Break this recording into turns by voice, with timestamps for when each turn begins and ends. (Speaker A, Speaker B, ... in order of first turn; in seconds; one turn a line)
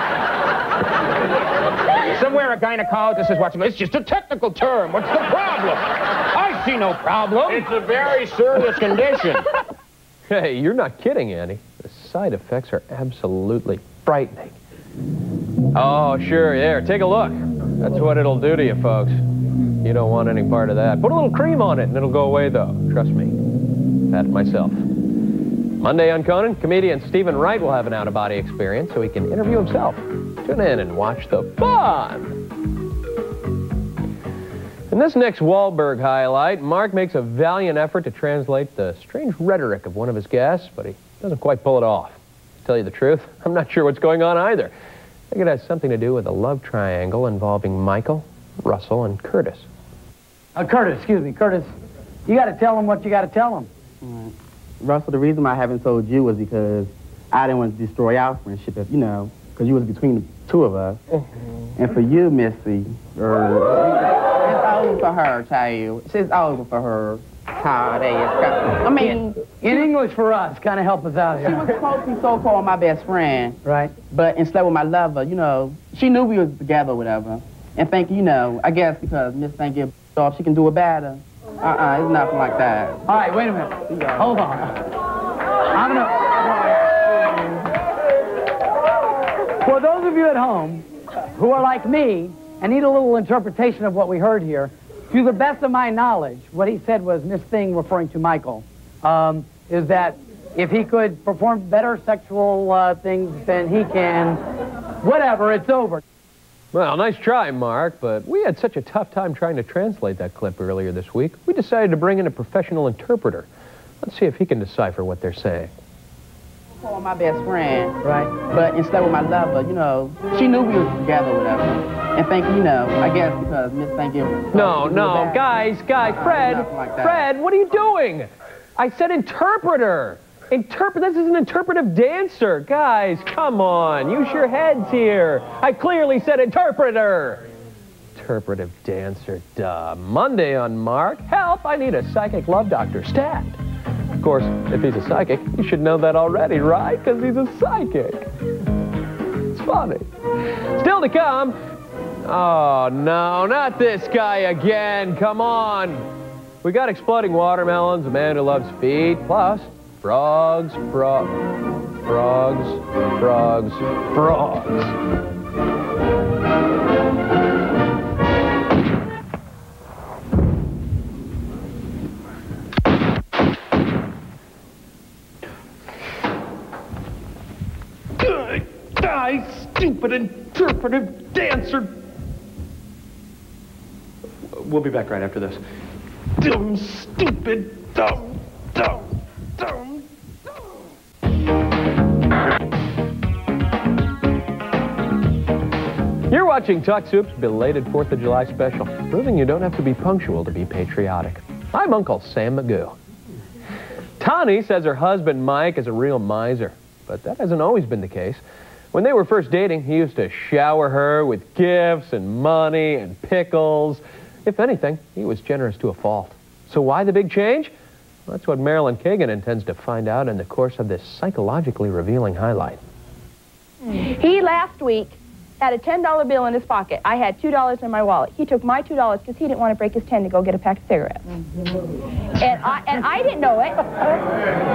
Speaker A: 2.1-9.4
Speaker B: 10.3-14.6
Speaker B: 15.7-19.2
Speaker B: 19.8-23.4
Speaker B: 24.1-24.8
Speaker B: 25.8-32.4
Speaker B: 34.9-44.7
Speaker B: 45.3-49.7
Speaker C: 50.5-51.7
Speaker C: 52.3-53.7
Speaker D: 54.0-61.0
Speaker D: 61.8-69.9
Speaker C: 69.5-71.7
Speaker D: 71.4-83.0
Speaker C: 73.7-73.9
Speaker C: 83.1-84.7
Speaker D: 83.9-84.3
Speaker C: 85.7-87.4
Speaker C: 89.6-104.4
Speaker C: 105.0-106.0
Speaker B: 106.7-113.5
Speaker B: 114.0-115.7
Speaker D: 116.8-125.6
Speaker B: 124.5-137.4
Speaker D: 126.1-127.3
Speaker B: 138.2-143.6
Speaker B: 144.2-148.3
Speaker B: 149.5-150.1
Speaker B: 150.8-151.6
Speaker B: 152.2-156.1
Speaker B: 156.6-161.4
Speaker B: 162.0-165.0
Speaker B: 180.9-181.5
Speaker B: 184.6-185.6
Speaker B: 196.3-203.0
Speaker B: 204.2-217.7
Speaker B: 218.3-222.8
Speaker E: 223.8-231.3
Speaker E: 232.4-234.2